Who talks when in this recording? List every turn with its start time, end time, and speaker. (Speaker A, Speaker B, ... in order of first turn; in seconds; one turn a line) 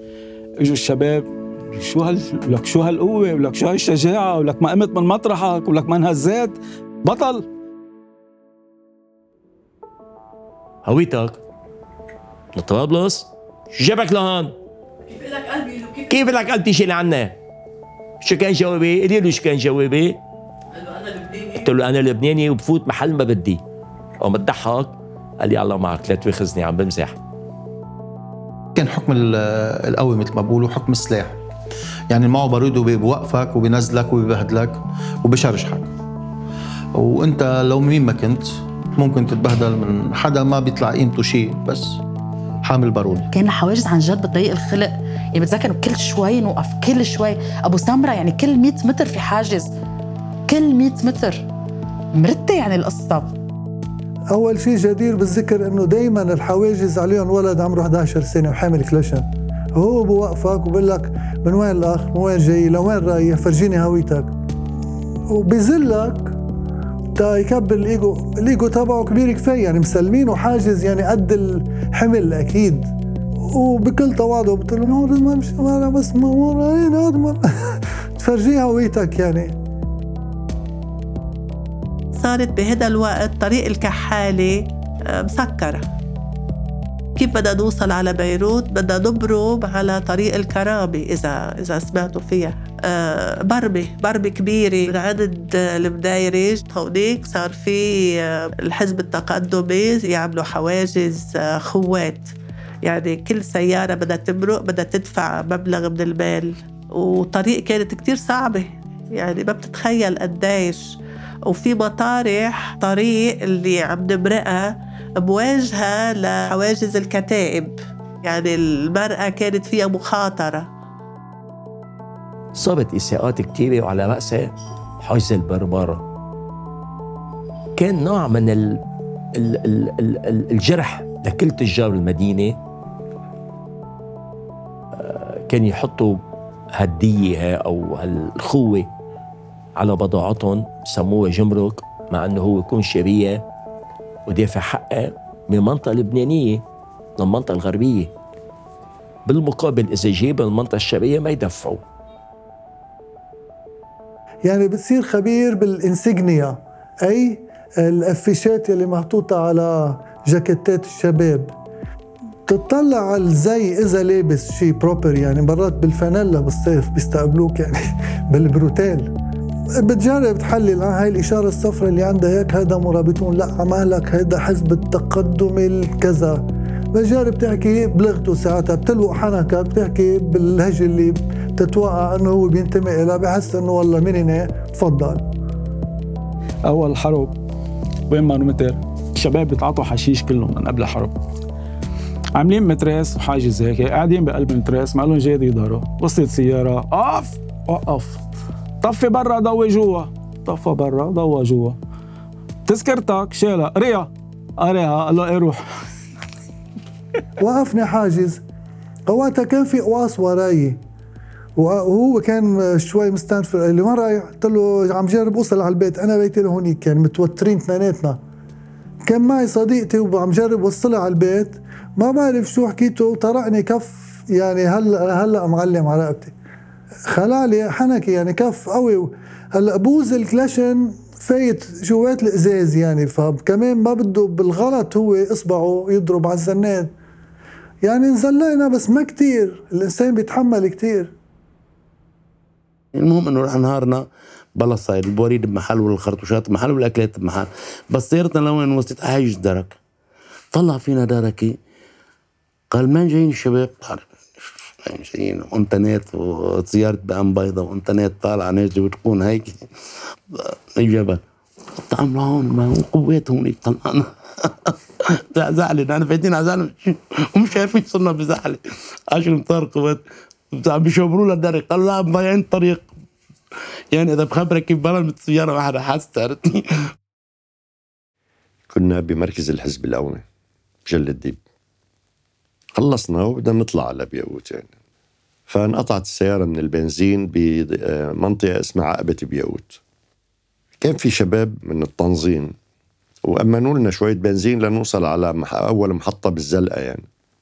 Speaker A: 0.6-7.4
Speaker B: 10.8-11.4
Speaker B: 12.5-14.5
Speaker B: 15.7-17.3
Speaker B: 18.2-20.2
Speaker B: 21.0-23.6
Speaker B: 24.2-27.1
Speaker C: 28.7-31.3
Speaker C: 32.1-35.9
Speaker C: 37.0-42.0
Speaker C: 42.6-43.3
Speaker D: 43.3-49.7
Speaker D: 50.5-51.4
Speaker D: 52.2-53.3
Speaker E: 54.3-64.3
Speaker E: 65.3-66.3
Speaker E: 67.2-72.9
Speaker E: 73.5-79.5
Speaker F: 82.1-85.8
Speaker F: 87.2-111.0
Speaker F: 111.5-120.7
Speaker B: 122.5-126.0
Speaker B: 127.8-128.8
Speaker B: 129.4-132.6
Speaker B: 135.0-136.2
Speaker B: 136.8-138.9
Speaker B: 139.8-143.4
Speaker B: 144.2-146.6
Speaker B: 147.2-148.1
Speaker B: 149.2-151.8
Speaker E: 154.4-161.5
Speaker E: 162.5-167.8
Speaker E: 168.3-169.1
Speaker E: 169.8-176.4
Speaker E: 176.9-185.2
Speaker A: 186.7-187.3
Speaker A: 188.1-191.1
Speaker A: 192.4-198.2
Speaker A: 198.8-201.8
Speaker A: 202.7-205.6
Speaker E: 207.4-208.4
Speaker E: 209.1-210.8
Speaker E: 211.6-218.2
Speaker E: 219.1-226.3
Speaker E: 227.1-236.9
Speaker E: 237.8-241.1
Speaker G: 242.9-244.0
Speaker G: 244.6-249.8
Speaker G: 250.5-251.6
Speaker G: 252.7-254.1
Speaker G: 254.9-259.7
Speaker G: 260.8-261.2
Speaker G: 261.9-264.1
Speaker G: 265.3-268.6
Speaker G: 269.1-270.0
Speaker G: 270.6-272.9
Speaker G: 273.9-276.6
Speaker H: 278.7-280.2
Speaker H: 280.9-281.4
Speaker H: 282.8-284.7
Speaker H: 285.5-289.8
Speaker H: 290.8-292.5
Speaker H: 293.2-297.0